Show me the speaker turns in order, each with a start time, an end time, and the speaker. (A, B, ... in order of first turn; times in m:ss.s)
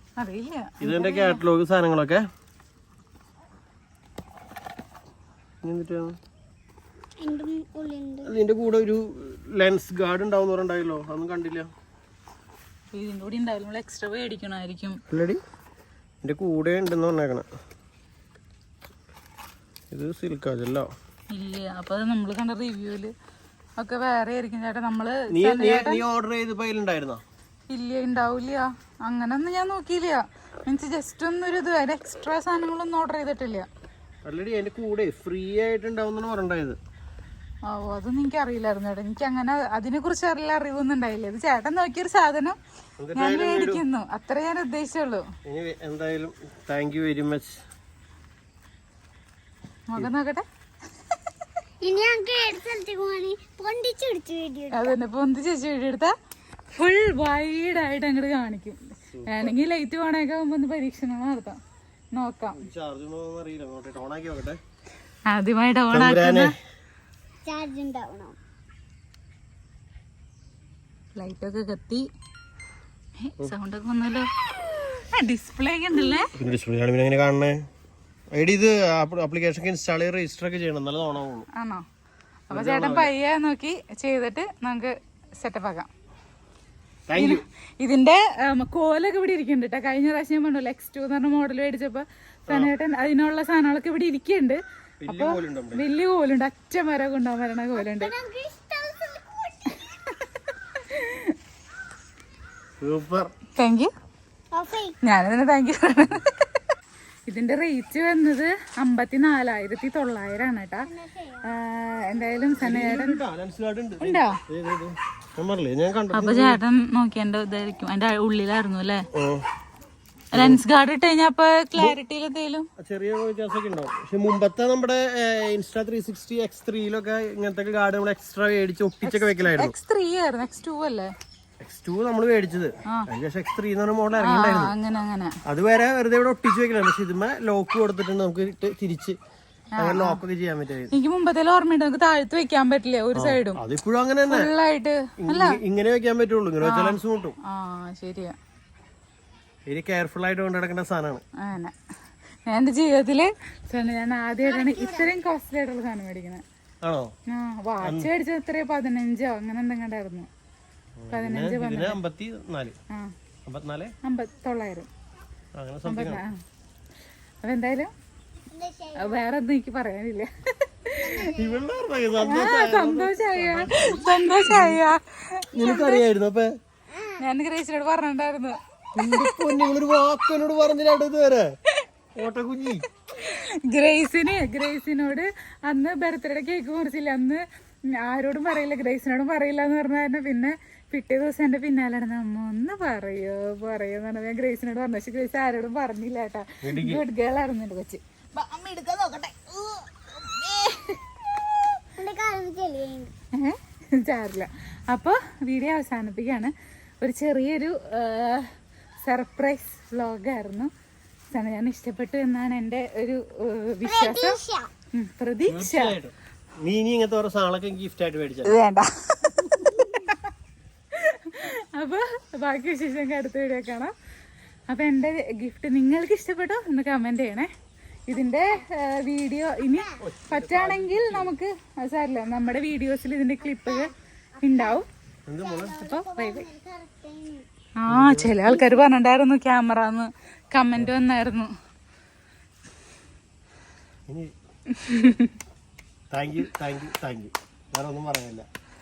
0:00.2-0:01.4 A
0:00.8-0:02.2 B
0:05.6-0:06.2 B
0:07.2-0:08.3 C
0:08.2-0:11.7 B
0:12.9-0:15.0 A
0:15.1-0:15.4 B
0:16.2-0:17.5 B
0:19.9-0:20.9 B
0:21.3-0:23.1 A
0:23.8-0:26.0 A
0:25.3-0:27.2 B
0:27.7-0:33.7 A
0:34.2-0:36.8 B
0:37.7-0:42.6 A
0:43.0-0:43.8 B
0:43.2-0:45.3 A
0:45.4-0:47.6 B
0:49.9-0:50.4 A
0:51.8-0:54.9 C
0:54.7-0:56.1 A
0:56.7-1:01.6 A
0:59.1-0:59.6 B
1:02.2-1:02.6 A
1:02.6-1:04.6 B
1:05.3-1:06.5 A
1:05.9-1:06.5 B
1:07.4-1:08.4 C
1:11.2-1:12.1 A
1:13.2-1:16.3 A
1:16.0-1:16.3 C
1:16.3-1:17.6 B
1:18.3-1:21.5 B
1:21.5-1:21.8 A
1:22.5-1:25.9 A
1:22.5-1:23.1 B
1:27.1-1:27.4 B
1:27.1-1:38.1 A
1:32.5-1:32.7 B
1:35.0-1:35.8 B
1:37.8-1:39.8 C
1:40.7-1:41.4 A
1:42.8-1:43.3 B
1:43.6-1:43.9 A
1:44.5-1:45.0 C
1:45.0-1:46.4 A
1:47.3-1:50.9 A
1:50.9-1:51.5 C
1:51.4-1:53.2 A
1:52.6-1:56.6 B
1:54.0-1:54.4 A
1:56.1-1:59.1 A
1:59.1-1:59.4 B
2:00.3-2:02.7 A
2:00.4-2:00.6 B
2:02.8-2:09.8 B
2:09.0-2:11.1 A
2:11.6-2:14.7 B
2:14.2-2:15.3 A
2:15.4-2:19.2 B
2:19.8-2:20.2 A
2:19.8-2:20.9 B
2:20.9-2:23.6 A
2:23.2-2:24.5 B
2:24.3-2:25.6 A
2:25.2-2:27.4 B
2:26.6-2:28.4 A
2:29.7-2:31.2 B
2:31.4-2:31.8 A
2:32.5-2:36.4 A
2:34.4-2:35.1 C
2:36.8-2:37.1 B
2:37.3-2:40.3 A
2:37.8-2:38.1 B
2:41.0-2:42.8 B
2:41.1-2:42.0 A
2:43.4-2:43.9 B
2:44.0-2:44.9 A
2:45.6-2:46.2 B
2:45.8-2:46.4 A
2:47.4-2:47.9 A
2:48.5-2:49.2 C
2:49.0-2:51.3 A
2:51.0-2:51.6 C
2:51.3-2:54.8 B
2:52.2-2:56.0 A
2:55.5-2:56.5 B
2:56.9-2:57.2 C
2:57.2-2:59.5 A
2:59.0-3:01.5 B
3:02.2-3:02.8 B
3:03.2-3:07.4 A
3:08.0-3:21.0 A
3:16.6-3:17.0 B
3:22.0-3:23.1 C
3:23.4-3:28.5 A
3:29.0-3:30.7 A
3:31.3-3:34.4 A
3:33.8-3:34.7 C
3:34.9-3:36.0 A
3:35.5-3:38.5 B
3:38.4-3:40.3 A
3:40.9-3:43.9 A
3:44.7-3:47.5 A
3:48.1-3:54.9 A
3:50.0-3:51.3 B
3:53.5-3:54.8 C
3:55.3-3:55.7 B
3:55.4-3:57.5 C
3:55.7-3:56.5 A
3:57.8-4:01.5 A
3:57.9-3:58.6 B
4:04.1-4:04.3 B
4:04.7-4:05.3 A
4:06.1-4:08.5 B